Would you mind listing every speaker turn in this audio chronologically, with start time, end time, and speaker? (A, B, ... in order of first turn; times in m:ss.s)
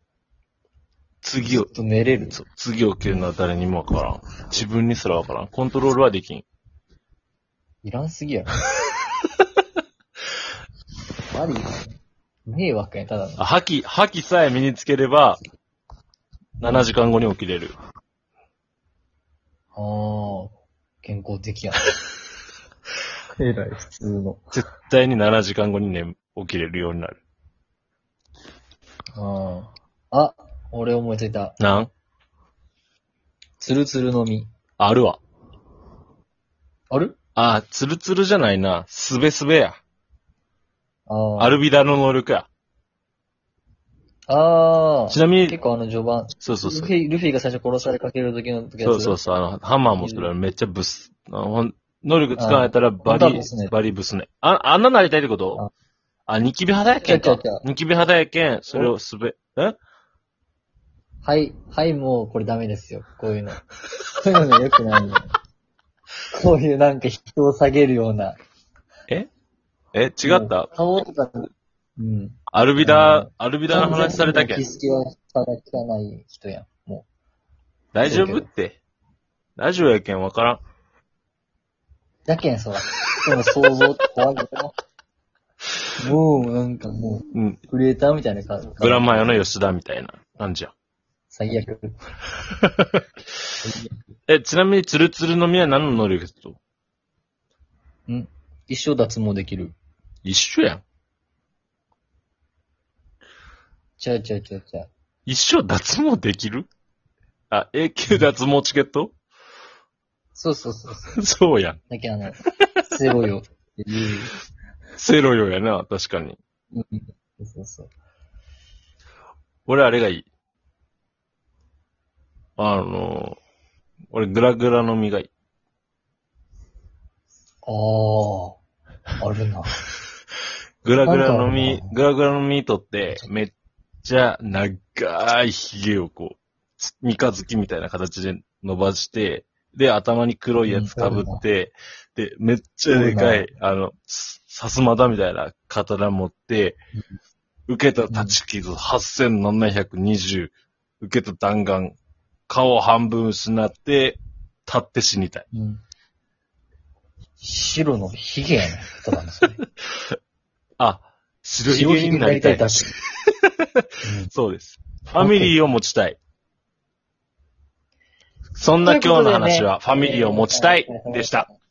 0:01.2-0:01.7 A
0:01.4-0:02.4 B
0:02.3-0:06.4 A
0:07.8-0:08.6 B
0:11.3-0:11.9 B
0:12.5-0:13.4 B
0:13.4-0:15.4 A
0:16.6-0:17.7 A
0:19.7-0:21.9 B
0:23.3-0:24.5 B
0:24.5-0:27.2 A
0:29.2-0:31.6 B
0:31.6-0:31.9 A
0:33.6-0:34.5 B
0:34.8-0:35.2 A
0:36.9-0:37.2 B
0:37.4-0:39.8 A
0:41.1-0:41.6 B
0:41.4-0:42.5 A
0:44.3-0:49.2 B
0:45.1-0:45.6 A
0:46.4-0:46.9 A
0:48.8-0:55.6 A
0:50.0-0:50.3 B
0:52.4-0:53.8 B
0:56.3-0:59.8 A
0:57.0-0:57.6 B
1:01.2-1:03.6 B
1:04.2-1:05.3 B
1:06.3-1:08.4 B
1:09.9-1:10.7 A
1:10.2-1:17.1 B
1:12.5-1:14.6 A
1:17.9-1:18.8 A
1:18.0-1:18.5 B
1:19.6-1:20.6 A
1:22.3-1:24.7 B
1:26.0-1:29.4 B
1:27.3-1:27.6 A
1:28.8-1:30.7 A
1:31.3-1:32.0 B
1:32.6-1:33.0 A
1:33.6-1:34.0 B
1:34.3-1:36.6 A
1:38.1-1:39.7 B
1:40.2-1:40.8 A
1:44.0-1:44.9 B
1:45.3-1:46.7 A
1:47.5-1:49.1 A
1:50.4-1:51.2 B
1:51.2-1:51.8 A
1:51.9-1:54.3 B
1:55.0-1:56.4 A
1:56.7-1:57.9 B
1:59.7-2:00.3 A
2:02.6-2:03.4 A
2:04.1-2:05.3 A
2:07.6-2:08.6 B
2:09.2-2:09.8 B
2:10.8-2:13.5 A
2:11.0-2:11.9 B
2:14.0-2:26.8 A
2:20.6-2:21.4 B
2:22.9-2:23.5 B
2:27.7-2:32.0 A
2:28.1-2:28.4 B
2:32.5-2:35.4 A
2:35.5-2:35.8 B
2:37.4-2:39.6 B
2:40.8-2:42.8 A
2:41.6-2:42.9 B
2:44.0-2:44.3 B
2:44.3-2:46.2 A
2:45.2-2:45.5 B
2:48.6-2:51.5 A
2:48.8-2:51.4 B